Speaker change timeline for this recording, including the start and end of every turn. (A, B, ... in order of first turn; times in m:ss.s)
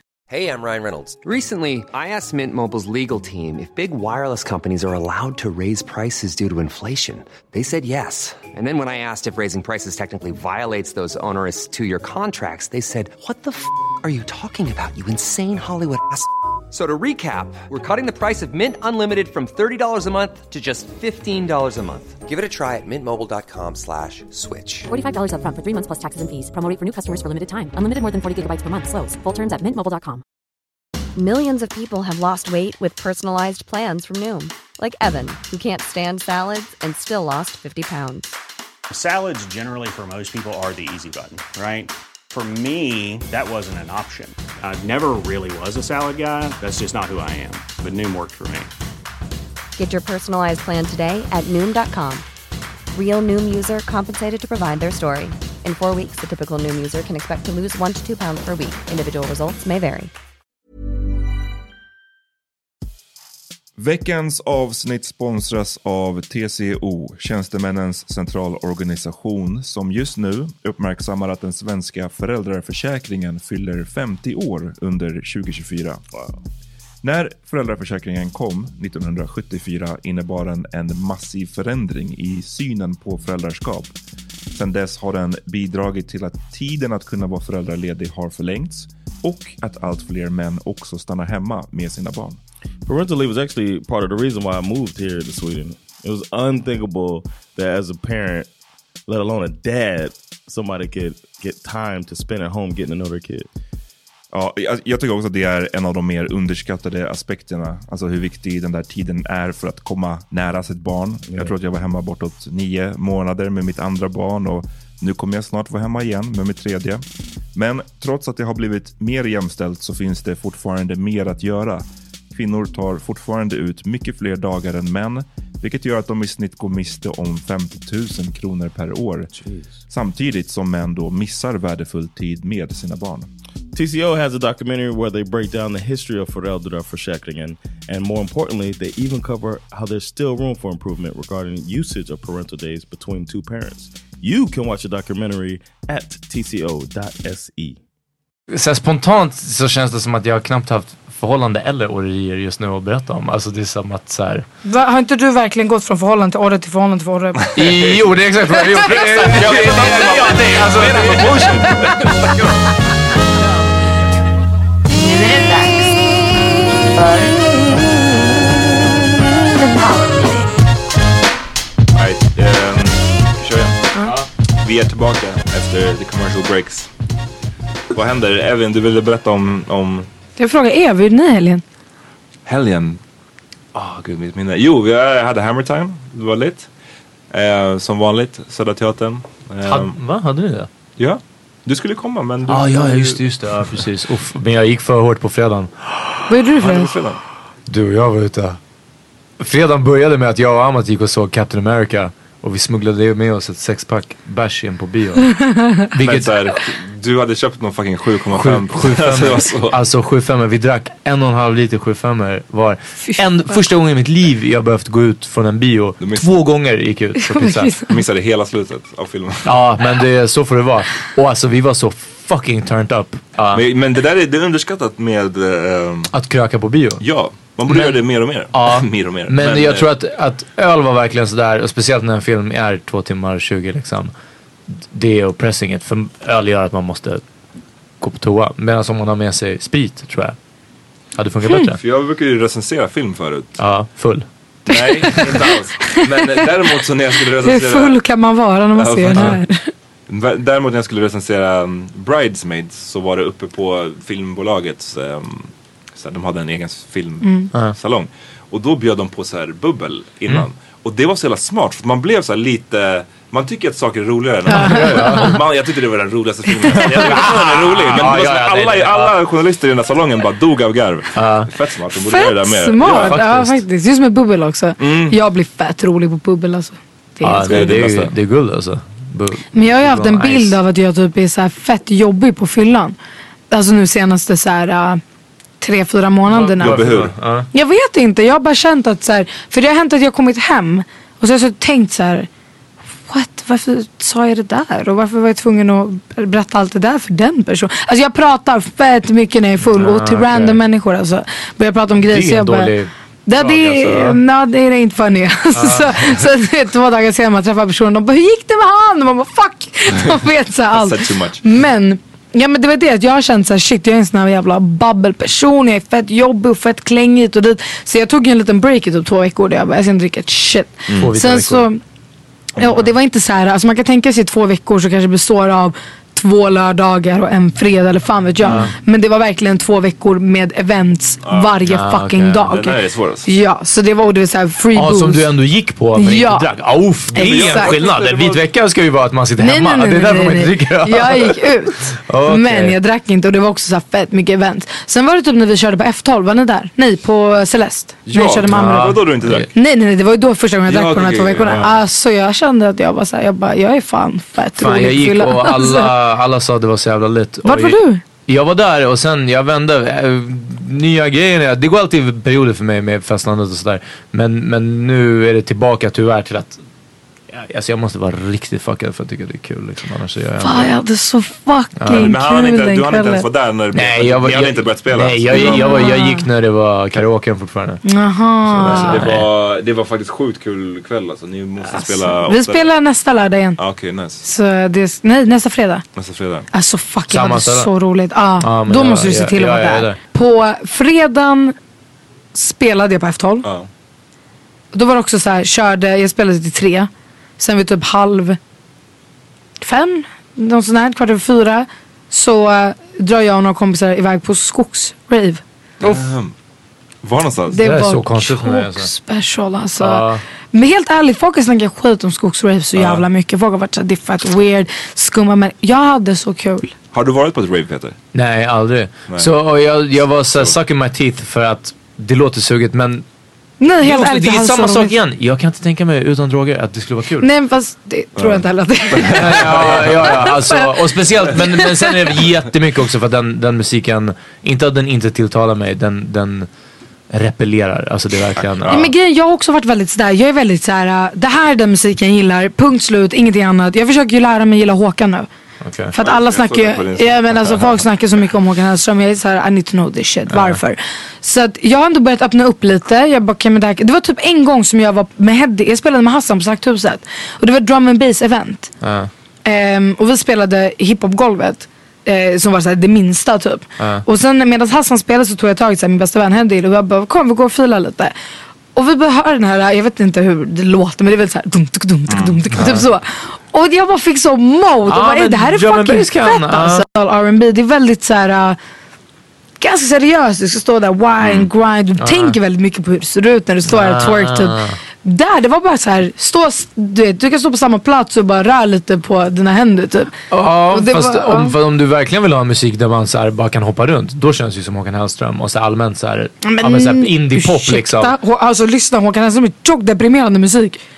0:00.3-0:24.9 A
0:24.9-0:30.2 B
0:31.1-0:38.4 C
0:38.9-0:48.7 D
0:49.8-0:52.2 C
0:52.9-1:00.1 C
1:03.8-1:16.0 E
1:16.1-1:16.4 F
1:17.0-1:23.9 E
1:24.5-1:32.4 E
1:32.8-1:38.5 F
1:39.1-1:43.5 F
1:44.3-1:57.0 E
1:51.3-1:51.5 F
1:57.5-2:09.3 E
2:09.3-2:09.8 F
2:09.9-2:13.3 E
2:13.7-2:27.8 F
2:28.5-2:34.4 G
2:34.6-2:37.4 H
2:37.6-2:38.0 E
2:37.6-2:41.8 G
2:38.8-2:42.4 E
2:44.9-2:46.0 H
2:46.8-2:47.8 H
2:49.6-2:50.4 H
2:51.9-2:53.9 E
2:54.6-2:56.9 E
2:57.9-3:00.1 E
3:00.4-3:01.6 H
3:02.4-3:03.0 E
3:03.7-3:06.7 E
3:07.3-3:10.0 E
3:09.6-3:10.7 G
3:11.0-3:13.2 E
3:12.5-3:16.2 G
3:16.3-3:17.0 H
3:16.6-3:17.2 E
3:17.7-3:18.6 G
3:19.4-3:25.3 G
3:25.4-3:25.8 H
3:25.9-3:26.3 G
3:26.0-3:29.8 E
3:28.3-3:37.8 G
3:33.0-3:33.6 H
3:36.0-3:36.3 E
3:37.3-3:37.9 H
3:37.9-3:39.6 E
3:39.4-3:43.6 G
3:43.5-3:46.1 E
3:46.1-3:47.0 G
3:47.0-3:49.9 E
3:47.6-3:54.1 G
3:54.8-3:57.2 G
3:58.0-4:00.4 G
4:01.1-4:01.8 G
4:01.8-4:03.6 E
4:03.6-4:04.2 G
4:04.7-4:08.0 E
4:05.0-4:05.4 G
4:07.4-4:09.7 H
4:08.7-4:09.4 E
4:10.1-4:33.2 E
4:17.2-4:17.5 H
4:24.5-4:25.4 G
4:24.6-4:25.4 H
4:26.7-4:29.1 G
4:31.1-4:31.5 G
4:32.0-4:37.7 H
4:32.8-4:33.6 G
4:34.8-4:35.2 E
4:37.2-4:40.6 G
4:37.4-4:38.1 E
4:39.5-4:43.0 H
4:43.5-4:45.0 H
4:45.6-4:52.3 H
4:46.3-4:47.5 G
4:46.6-4:47.1 E
4:53.1-5:02.7 H
4:59.7-5:00.6 G
5:02.0-5:04.1 G
5:03.2-5:21.8 H
5:03.6-5:04.1 E
5:05.5-5:05.9 G
5:10.7-5:11.4 E
5:20.9-5:21.7 G
5:22.6-5:35.3 H
5:28.4-5:28.7 G
5:31.2-5:31.6 E
5:31.6-5:32.5 G
5:32.5-5:33.3 E
5:34.7-5:42.8 G
5:35.9-5:36.5 H
5:37.1-5:37.7 H
5:37.2-5:38.4 E
5:39.4-5:55.9 H
5:48.0-5:49.5 E
5:48.4-5:49.5 G
5:50.7-5:51.7 E
5:54.6-6:06.6 G
5:57.4-5:58.0 H
6:07.3-6:10.7 G
6:10.4-6:13.3 H
6:11.8-6:12.1 G
6:11.9-6:15.9 E
6:13.7-6:17.8 G
6:15.3-6:16.3 H
6:17.8-6:19.1 H
6:18.4-6:19.3 G
6:18.6-6:22.7 E
6:21.7-6:23.6 H
6:23.6-6:24.2 E
6:24.2-6:25.8 H
6:26.0-6:26.5 E
6:26.5-6:31.5 H
6:27.1-6:27.7 G
6:28.4-6:30.0 G
6:32.3-6:33.4 H
6:33.4-6:33.7 E
6:34.7-6:38.4 H
6:39.6-6:45.4 H
6:45.8-6:46.3 E
6:47.0-6:47.6 E
6:47.5-6:56.7 H
6:47.6-6:48.9 G
6:49.8-6:50.2 G
6:52.8-6:53.0 E
6:56.9-6:58.0 E
6:58.1-7:03.0 G
7:03.6-7:04.9 H
7:03.8-7:07.3 G
7:07.2-7:12.2 H
7:08.2-7:10.0 E
7:09.2-7:16.5 G
7:17.1-7:18.8 G
7:18.5-7:18.9 E
7:18.7-7:25.3 H
7:25.6-7:25.9 G
7:25.9-7:38.7 H
7:26.0-7:27.8 E
7:30.3-7:30.6 G
7:38.8-7:39.1 G
7:39.4-7:48.1 H
7:43.8-7:44.0 G
7:48.7-7:58.6 H
7:52.1-7:52.4 E
7:52.5-7:52.8 G
7:54.9-7:56.8 G
7:59.6-8:10.2 H
8:01.2-8:01.5 E
8:02.0-8:02.4 G
8:03.6-8:04.8 G
8:10.3-8:18.1 G
8:10.7-8:11.5 H
8:16.4-8:20.8 H